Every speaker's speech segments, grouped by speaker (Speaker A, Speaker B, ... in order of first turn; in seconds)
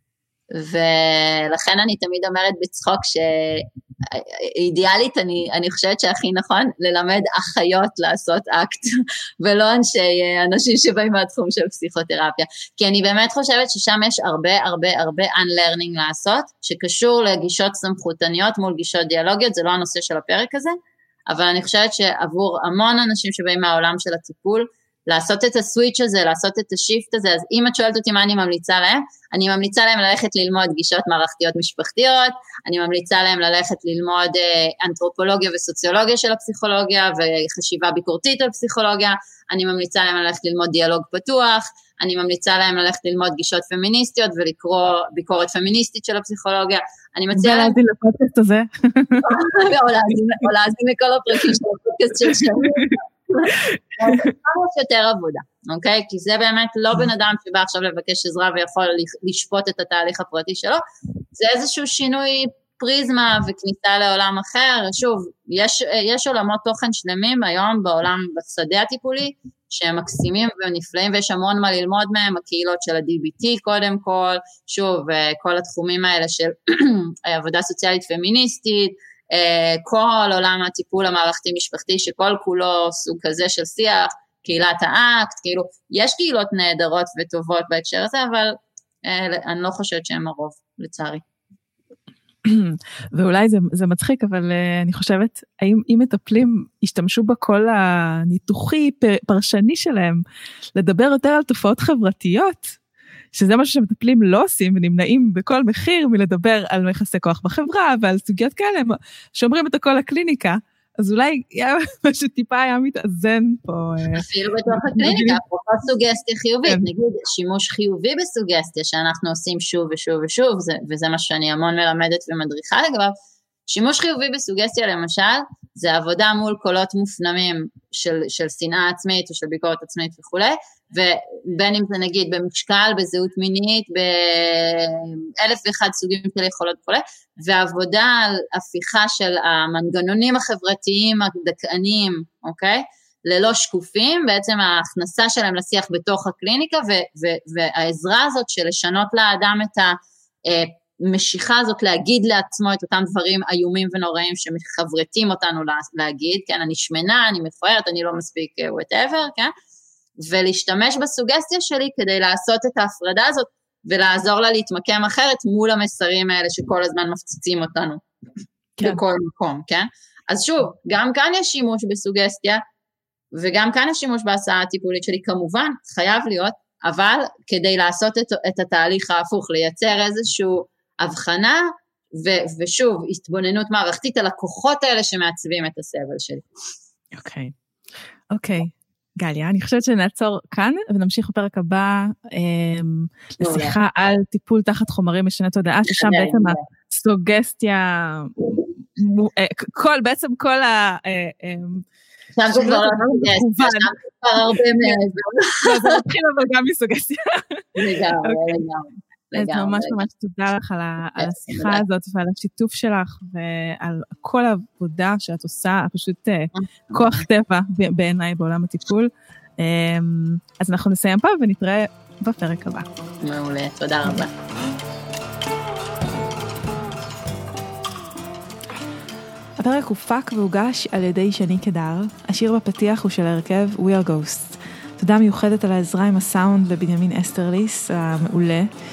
Speaker A: 0.5-8.8, 9.4-20.8, 21.3-47.8, 49.2-60.8, 61.3-91.2, 114.1-123.1, 123.7-159.5, 160.2-168.0, 168.8-172.6, 173.3-186.4, 193.4-193.8, 195.9-196.6, 202.3-206.0, 207.8-210.0, 211.2-211.8, 216.5-217.2, 223.2-224.3
Speaker B: 47.3-49.3, 53.5-54.3, 92.4-100.2, 100.7-102.8, 103.3-115.4, 187.1-187.5, 188.3-201.8, 202.5-203.9, 205.6-207.7, 208.2-208.5, 209.3-222.9, 229.6-238.7